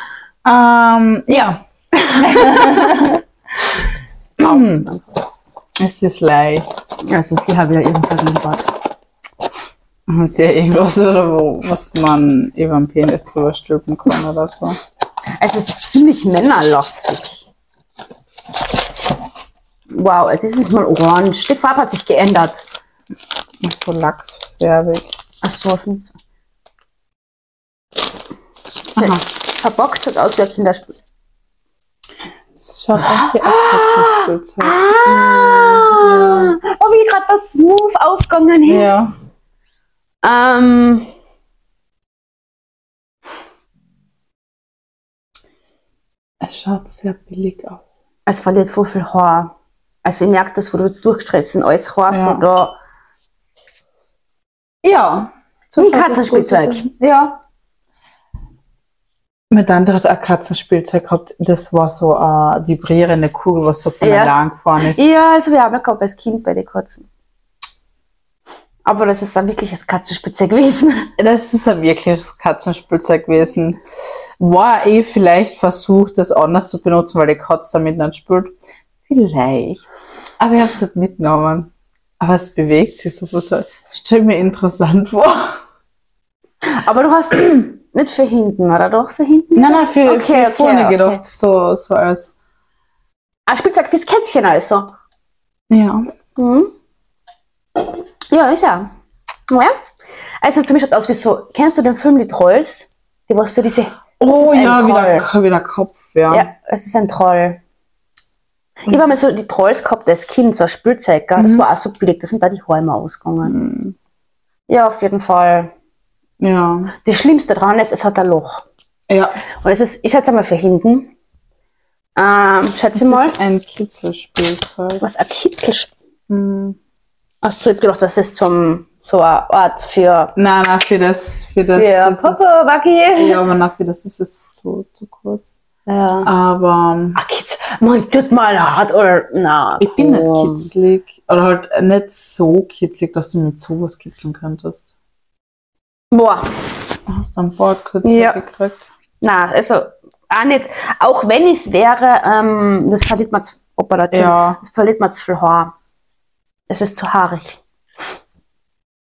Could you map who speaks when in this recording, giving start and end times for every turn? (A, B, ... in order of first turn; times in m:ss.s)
0:00.4-0:01.6 A
0:01.3-0:03.2 B
0:02.2-0:03.2 A
0:04.4-0:04.9 A
0:04.4-0:05.2 B
0:05.8-0:06.7 A
0:07.1-0:08.7 B
0:10.1-0:14.8 A
0:15.4-0:17.4 B
0:19.9-0:22.6 B
0:23.6-0:25.1 A
0:25.4-0:26.2 B
0:29.0-0:29.2 A
0:29.0-0:31.0 B
0:32.5-0:36.6 A
0:33.0-0:39.1 B
0:38.7-0:39.1 A
0:40.2-0:41.1 B
0:46.4-0:48.0 A
0:48.3-0:49.5 B
0:50.0-0:52.8 B
0:52.1-0:52.4 A
0:54.8-0:57.4 A
0:55.8-0:56.8 B
0:59.5-1:05.0 A
1:04.0-1:07.1 B
1:08.8-1:11.1 B
1:11.2-1:13.8 A
1:14.4-1:18.5 A
1:19.1-1:19.8 A
1:20.4-1:25.5 A
1:26.7-1:31.2 B
1:29.6-1:32.3 A
1:33.5-1:34.9 B
1:35.7-1:36.1 A
1:36.4-1:36.7 B
1:38.3-1:38.9 B
1:40.4-1:45.3 B
1:44.2-1:46.5 A
1:46.3-1:47.6 B
1:48.9-1:53.5 B
1:51.4-1:51.7 A
1:53.4-1:54.0 A
1:54.7-1:55.7 B
1:56.4-1:56.9 A
1:57.0-1:58.6 B
1:59.1-1:59.4 A
1:59.6-2:01.1 B
2:02.2-2:03.4 B
2:03.0-2:05.0 A
2:05.0-2:05.9 B
2:06.3-2:06.8 A
2:07.4-2:10.3 B
2:10.4-2:15.5 A
2:11.8-2:13.4 B
2:15.9-2:16.3 B
2:16.2-2:17.2 A
2:17.2-2:20.7 B
2:19.8-2:24.9 A
2:26.1-2:26.5 B
2:27.1-2:28.9 A
2:28.0-2:28.4 B
2:29.2-2:35.7 B
2:34.1-2:34.6 A
2:36.7-2:37.6 B